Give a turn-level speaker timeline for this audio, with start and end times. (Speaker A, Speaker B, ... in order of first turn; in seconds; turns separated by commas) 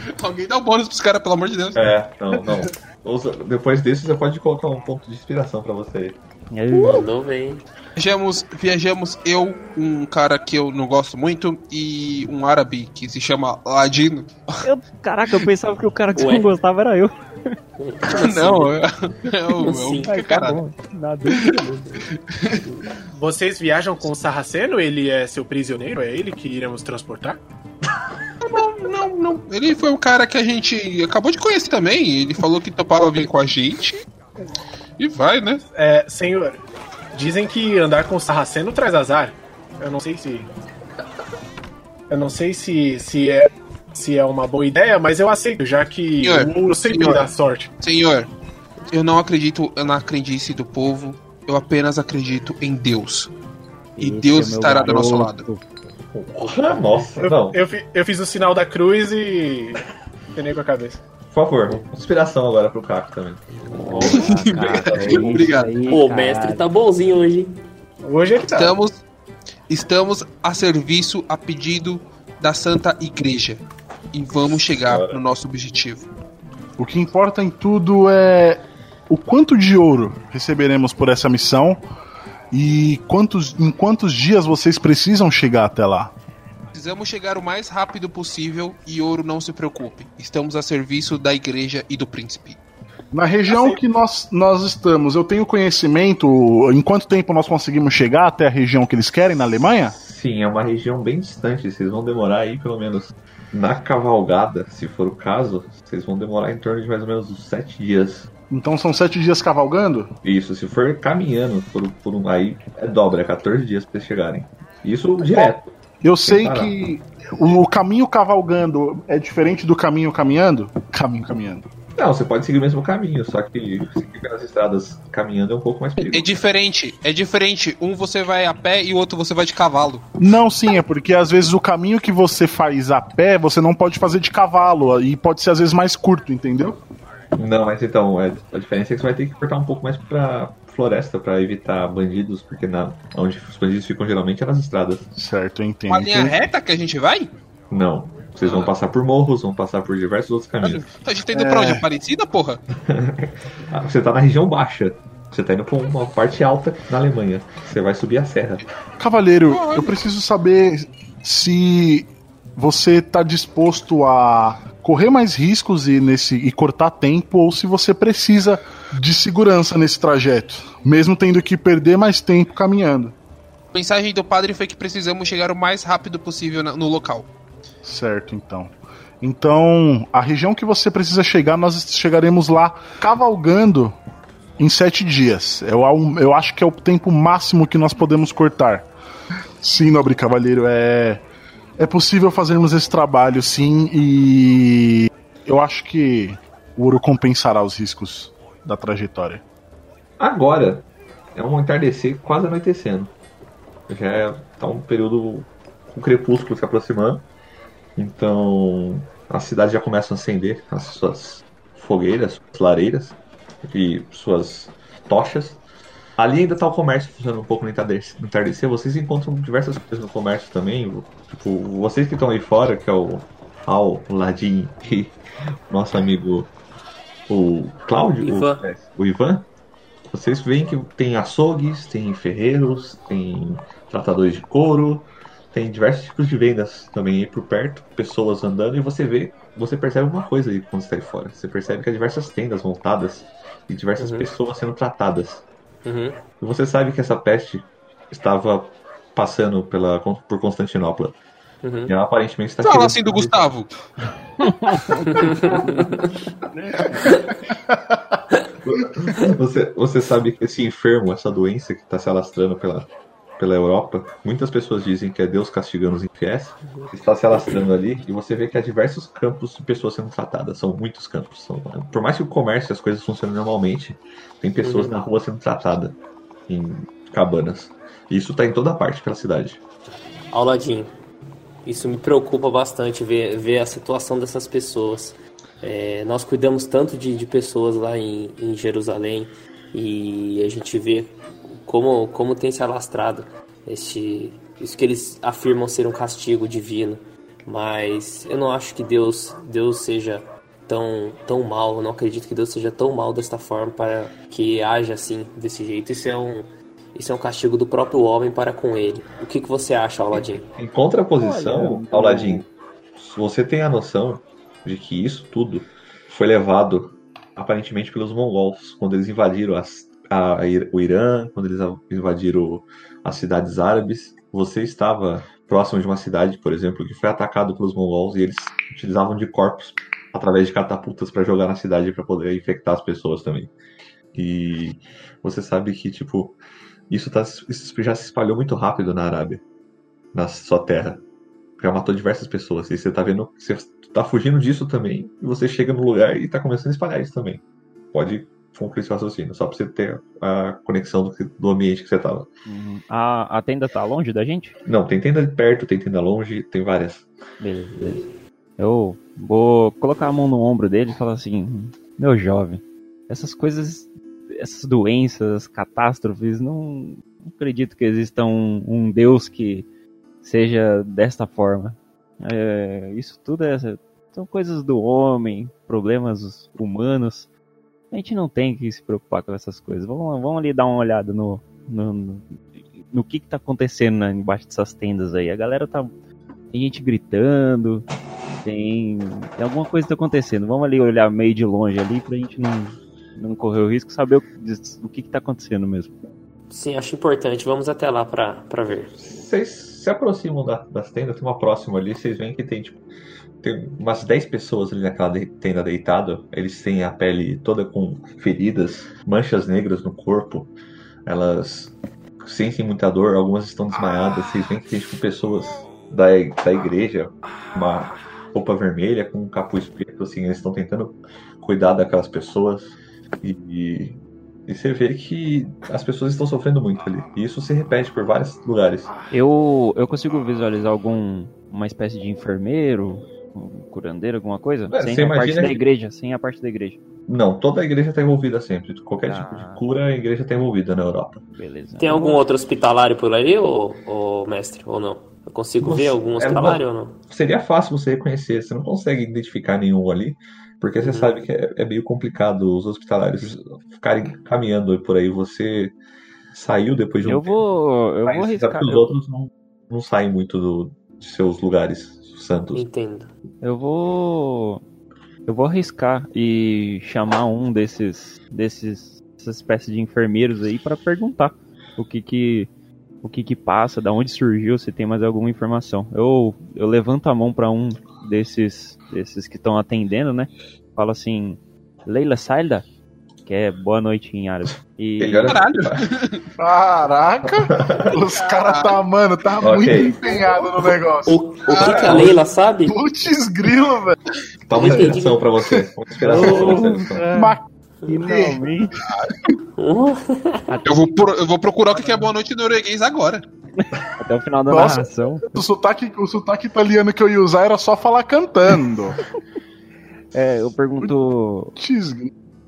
Speaker A: 0.1-1.9, Speaker B: 1.8-6.2, Speaker C: 6.5-7.1, Speaker D: 6.7-7.7, Speaker A: 8.0-14.7, Speaker C: 14.6-17.5, Speaker D: 16.1-16.5, Speaker D: 17.8-18.8, Speaker A: 18.1-20.6, Speaker D: 19.6-20.2, Speaker C: 20.0-22.0, Speaker A: 22.3-22.6, Speaker E: 23.1-27.4, Speaker A: 28.4-34.0, Speaker A: 35.0-35.6, Speaker E: 35.7-36.6, Speaker E: 37.1-40.5, Speaker E: 42.1-47.7, Speaker A: 46.2-48.3, Speaker A: 48.9-53.3, Speaker C: 54.0-55.6, Speaker A: 54.0-55.5, Speaker B: 56.1-57.6, Speaker D: 56.4-57.1, Speaker E: 57.2-59.8, Speaker E: 60.4-61.0, Speaker B: 61.3-65.6, Speaker D: 63.5-63.9, Speaker C: 63.8-66.6, Speaker A: 64.1-65.7, Speaker D: 65.8-67.6, Speaker E: 68.0-68.8, Speaker A: 68.5-69.0, Speaker A: 69.7-76.1, Speaker B: 74.8-75.2, Speaker F: 76.8-81.8, Speaker F: 82.5-86.1, Speaker A: 86.7-92.6, Speaker F: 93.1-100.0, Speaker A: 93.5-93.8, Speaker B: 99.9-108.3, Speaker F: 108.5-110.1, Speaker B: 110.2-115.7, Speaker F: 115.3-121.7, Speaker B: 116.3-116.7, Speaker B: 122.0-126.3, Speaker A: 126.0-130.1, Speaker F: 130.2-136.8, Speaker B: 137.3-145.1, Speaker F: 145.2-146.4, Speaker A: 145.9-147.3, Speaker B: 147.7-150.9, Speaker A: 148.4-148.7, Speaker A: 150.6-152.6, Speaker F: 151.3-151.9, Speaker B: 152.9-158.7, Speaker F: 159.0-173.2, Speaker A: 159.5-159.9, Speaker A: 173.7-177.3, Speaker F: 177.8-184.0, Speaker F: 184.6-188.9, Speaker F: 189.6-191.3, Speaker F: 191.8-199.4, Speaker B: 200.2-203.1, Speaker B: 203.9-207.3, Speaker B: 208.0-215.6, Speaker B: 216.2-225.2, Speaker B: 225.7-226.5, Speaker B: 227.3-229.5, Speaker D: 228.2-228.7, Speaker B: 230.1-245.4, Speaker D: 244.0-244.3, Speaker D: 245.8-246.2, Speaker B: 246.4-251.2, Speaker D: 251.6-251.9, Speaker B: 251.9-253.5, Speaker A: 252.6-253.7, Speaker C: 254.4-255.9, Speaker D: 255.1-256.1, Speaker C: 256.6-257.1, Speaker B: 258.6-276.0, Speaker D: 266.6-266.9, Speaker D: 274.6-275.0, Speaker B: 276.5-279.6, Speaker D: 280.3-280.9, Speaker D: 281.6-310.5, Speaker B: 310.1-333.5, Speaker C: 311.2-312.5, Speaker B: 334.1-336.4, Speaker B: 336.9-339.4, Speaker B: 340.1-341.0, Speaker B: 341.6-347.4, Speaker B: 347.9-352.3, Speaker C: 352.5-354.6, Speaker B: 354.6-357.1, Speaker C: 357.4-369.7, Speaker C: 370.2-377.3, Speaker C: 377.9-385.9, Speaker C: 386.5-387.9, Speaker C: 388.4-395.9, Speaker D: 396.5-398.9, Speaker B: 399.0-402.8, Speaker B: 403.4-410.5, Speaker B: 411.1-428.9, Speaker C: 429.1-436.8, Speaker B: 434.7-435.6, Speaker B: 437.1-441.2, Speaker C: 439.1-439.6, Speaker C: 441.3-442.2, Speaker D: 441.8-447.0, Speaker B: 445.6-455.8, Speaker D: 450.8-451.2, Speaker B: 456.3-457.4, Speaker C: 457.0-458.9, Speaker B: 458.1-462.7, Speaker D: 462.5-463.1, Speaker C: 463.4-464.6, Speaker C: 465.3-472.5, Speaker C: 473.0-482.6, Speaker C: 483.3-485.4, Speaker B: 485.0-485.9, Speaker A: 485.3-486.2, Speaker F: 486.4-492.1, Speaker B: 487.4-488.0, Speaker A: 488.3-488.8, Speaker B: 489.4-490.0, Speaker D: 491.1-492.8, Speaker A: 491.5-492.1, Speaker B: 491.9-492.1, Speaker F: 492.7-494.0, Speaker B: 494.5-497.1, Speaker D: 494.5-495.3, Speaker C: 496.0-498.7, Speaker F: 497.1-497.4, Speaker F: 498.0-498.4, Speaker D: 499.6-500.5, Speaker C: 500.5-501.0, Speaker A: 500.7-503.3, Speaker C: 503.6-505.3, Speaker F: 504.5-509.0, Speaker C: 510.1-511.6, Speaker F: 511.6-512.1